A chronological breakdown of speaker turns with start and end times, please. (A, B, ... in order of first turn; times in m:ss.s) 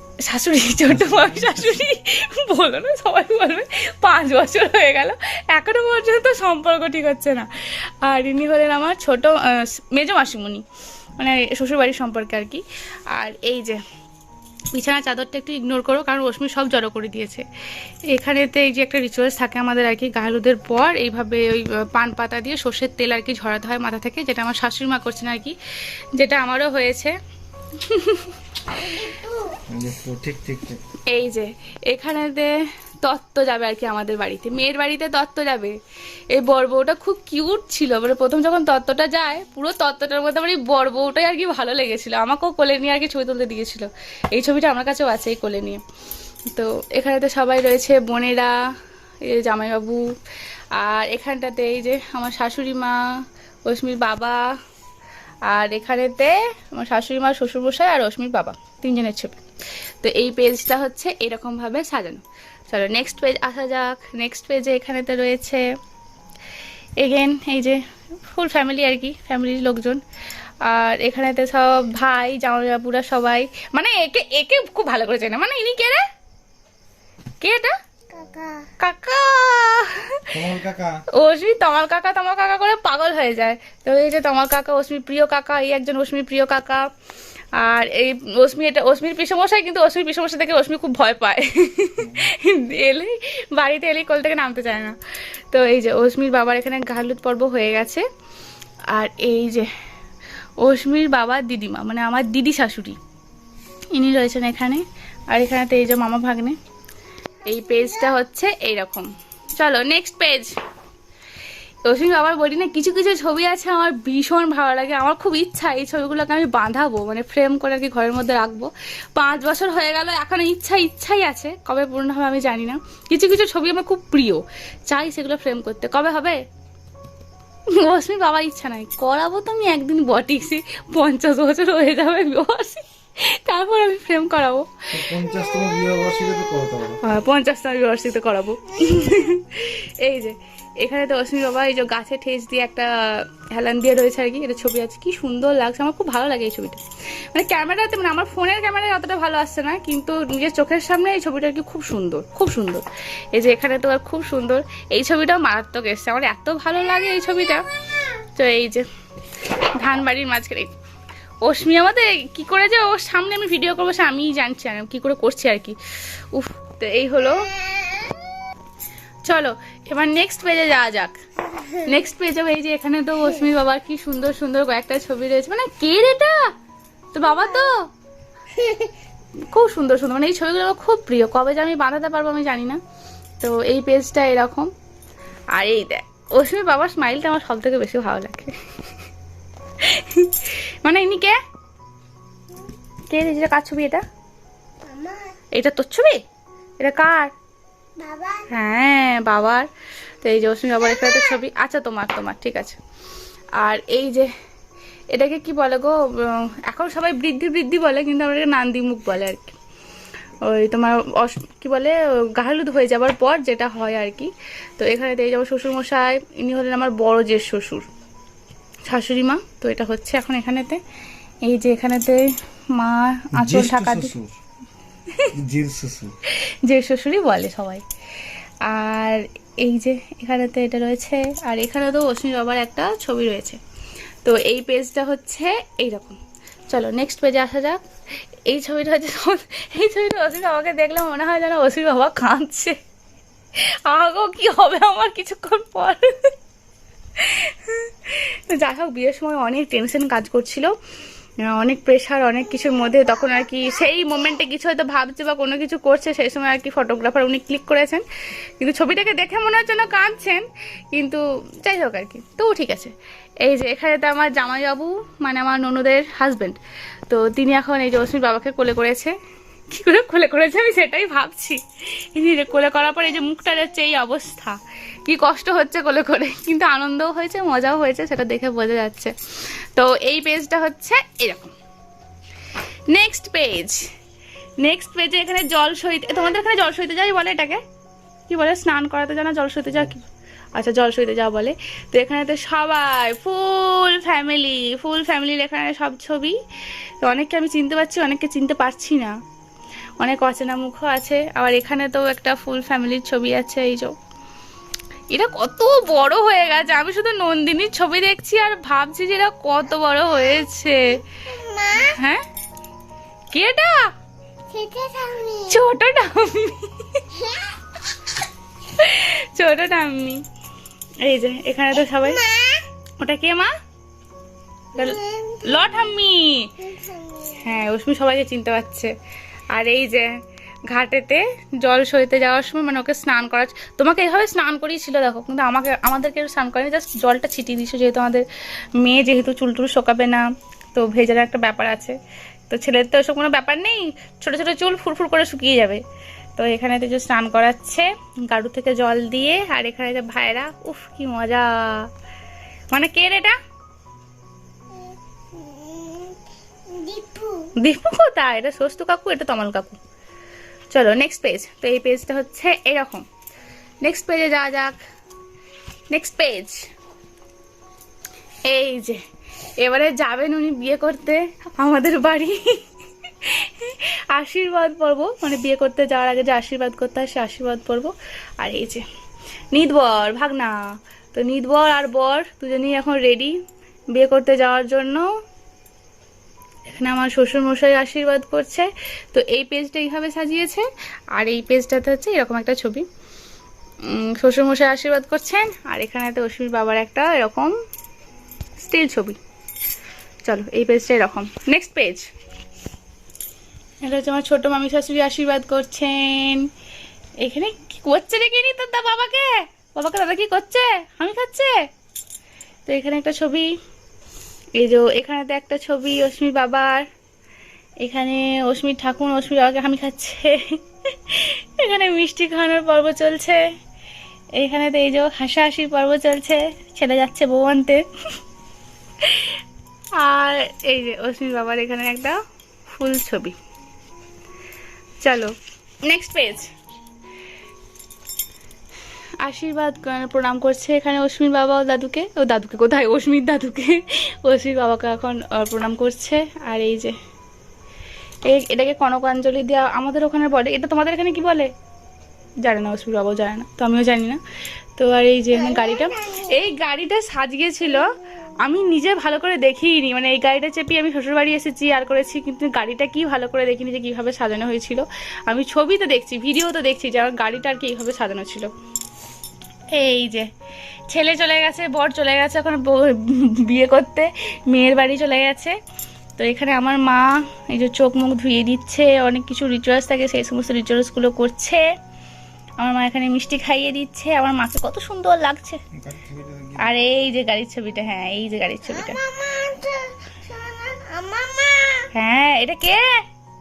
0:00.2-0:07.5 A
0:00.8-0:01.9 B
0:08.0-0:10.6 A
0:11.2-0:13.8 A
0:14.7-0:17.4 A
0:18.1-0:25.6 A
0:26.1-0:27.2 A
0:27.8-0:29.1 A
0:28.8-0:29.5 C
0:29.7-0:30.8 B
0:31.1-0:35.8 A
0:36.3-0:45.8 A
0:46.5-0:48.6 A
0:49.2-0:50.0 A
0:50.7-0:53.0 A
0:53.6-0:54.4 A
0:55.5-0:59.4 A
1:00.0-1:05.7 A
1:07.0-1:10.0 A
1:10.6-1:16.0 A
1:17.4-1:17.7 A
1:18.1-1:18.7 C
1:18.8-1:20.3 A
1:20.3-1:21.0 B
1:21.2-1:26.8 A
1:27.6-1:35.0 A
1:32.0-1:32.3 B
1:35.5-1:38.0 A
1:38.9-1:39.7 A
1:40.6-1:43.0 A
1:43.9-1:46.6 A
1:47.4-1:50.5 A
1:51.8-2:06.4 A
2:07.7-2:15.1 A
2:14.9-2:17.0 B
2:17.0-2:38.8 A
2:39.8-2:40.7 A
2:41.4-2:47.5 A
2:49.2-2:51.2 A
2:51.7-2:56.4 A
2:57.1-2:57.8 A
2:59.4-3:02.8 A
3:03.4-3:04.7 A
3:05.5-3:08.6 A
3:09.8-3:11.4 A
3:13.1-3:14.0 A
3:14.9-3:15.3 C
3:15.5-3:16.2 A
3:16.8-3:17.3 A
3:18.0-3:18.5 C
3:18.5-3:19.7 A
3:20.2-3:22.8 A
3:23.6-3:24.3 A
3:25.1-3:29.6 A
3:30.4-3:37.8 A
3:38.9-3:40.8 A
3:41.4-3:42.2 A
3:42.8-3:44.1 A
3:43.4-3:44.3 B
3:45.3-3:46.1 B
3:46.6-3:47.8 A
3:48.7-3:53.6 A
3:54.2-3:56.2 A
3:56.7-3:57.8 A
3:58.5-4:02.8 A
4:03.8-4:06.3 A
4:07.2-4:10.7 A
4:11.4-4:18.0 A
4:18.6-4:26.6 A
4:27.1-4:29.1 A
4:29.7-4:41.5 A
4:42.9-4:43.8 A
4:44.6-4:47.6 A
4:48.3-4:56.4 A
4:57.0-4:59.2 A
5:00.0-5:03.9 A
5:05.1-5:11.0 A
5:11.4-5:11.9 C
5:11.7-5:12.2 A
5:13.3-5:13.8 A
5:14.5-5:15.5 C
5:15.4-5:18.1 A
5:18.6-5:20.2 A
5:21.0-5:22.3 A
5:23.0-5:23.5 A
5:24.7-5:26.7 A
5:26.8-5:27.3 C
5:27.2-5:28.9 A
5:29.5-5:38.2 A
5:38.8-5:42.0 A
5:42.5-5:45.8 A
5:46.4-5:51.9 A
5:52.7-5:53.4 A
5:55.3-5:56.2 C
5:56.7-5:57.5 C
5:57.6-5:59.8 A
6:00.7-6:03.0 A
6:03.8-6:04.8 A
6:05.9-6:06.6 A
6:08.4-6:09.0 A
6:09.6-6:18.8 A
6:19.5-6:20.6 A
6:21.1-6:23.4 A
6:23.9-6:25.1 A
6:26.6-6:32.8 A
6:33.8-6:37.5 A
6:38.6-6:39.2 A
6:40.2-6:42.1 A
6:43.8-6:46.5 A
6:47.2-6:51.6 A
6:52.6-6:53.5 A
6:54.6-6:56.8 A
6:57.8-7:03.4 A
7:04.4-7:07.8 A
7:09.0-7:09.4 A
7:10.0-7:12.2 A
7:12.7-7:13.4 A
7:15.0-7:16.5 A
7:19.2-7:26.9 A
7:28.2-7:31.5 A
7:32.4-7:34.2 A
7:34.8-7:37.9 A
7:38.4-7:48.5 A
7:49.7-7:50.3 A
7:50.9-7:55.6 A
7:56.2-8:01.6 A
8:02.6-8:05.6 A
8:05.7-8:06.7 B
8:06.6-8:09.0 A
8:08.9-8:11.9 C
8:11.9-8:13.0 A